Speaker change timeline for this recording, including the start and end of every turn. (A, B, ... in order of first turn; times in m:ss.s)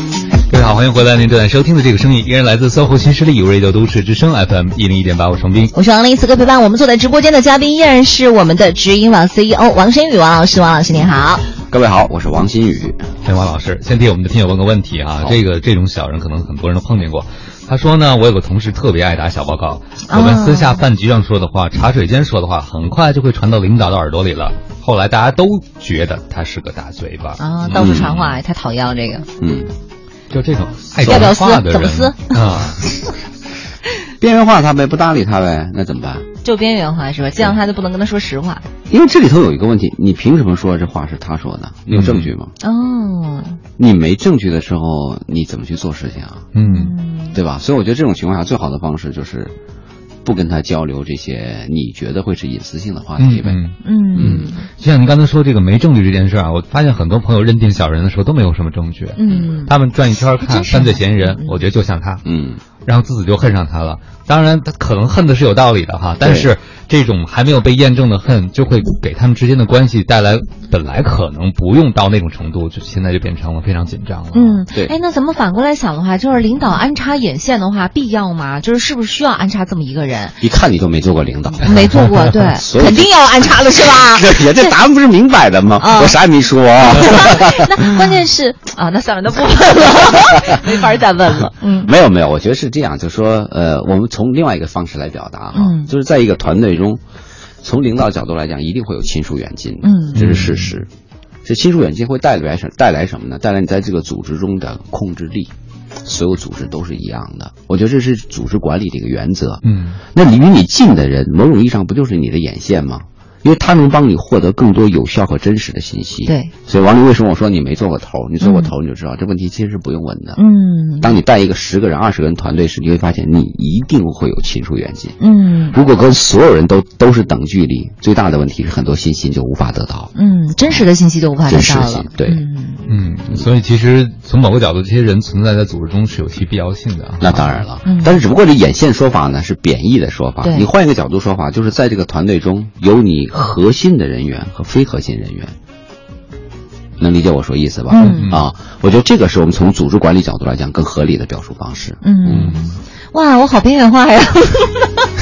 0:00.5-0:05.7 A
0:05.7-0:11.5 B
0:11.6-0:13.0 C
0:13.2-0:28.4 A
0:20.1-0:20.8 B
0:27.4-0:29.3 B
0:27.7-0:28.1 C
0:29.4-0:29.7 C
0:30.3-0:32.8 A
0:31.0-0:32.6 B
0:31.0-0:31.3 C
0:34.2-0:36.3 C
0:36.4-0:38.6 B
0:38.9-0:42.5 C
0:41.9-0:42.3 A
0:42.6-0:43.6 B
0:43.8-0:46.5 C
0:46.5-0:46.9 A
0:46.6-0:47.4 B
0:47.3-0:49.5 C
0:50.2-0:53.6 C
0:53.2-1:02.2 A
0:53.8-0:54.7 B
0:54.2-0:54.4 C
0:59.2-0:59.7 B
1:00.4-1:01.6 B
1:02.2-1:02.6 C
1:02.8-1:14.6 A
1:06.2-1:06.5 C
1:14.3-1:20.4 B
1:20.4-1:28.0 C
1:21.6-1:24.8 B
1:25.8-1:26.2 B
1:26.9-1:31.9 B
1:31.4-1:37.0 C
1:35.5-1:35.9 B
1:37.6-1:40.9 C
1:39.8-1:40.2 B
1:40.1-1:40.7 A
1:41.4-1:45.5 C
1:46.0-2:00.4 C
1:49.6-1:50.0 A
1:56.2-1:56.5 B
1:58.4-1:58.7 B
2:00.4-2:01.2 B
2:01.0-2:05.2 C
2:05.2-2:05.8 B
2:05.7-2:10.1 C
2:10.1-2:12.8 B
2:11.4-2:12.4 C
2:12.9-2:17.6 A
2:17.2-2:25.5 C
2:17.8-2:18.2 B
2:20.4-2:20.7 B
2:27.0-2:32.6 C
2:27.9-2:28.3 B
2:28.0-2:28.4 A
2:32.0-2:35.1 B
2:32.3-2:32.6 A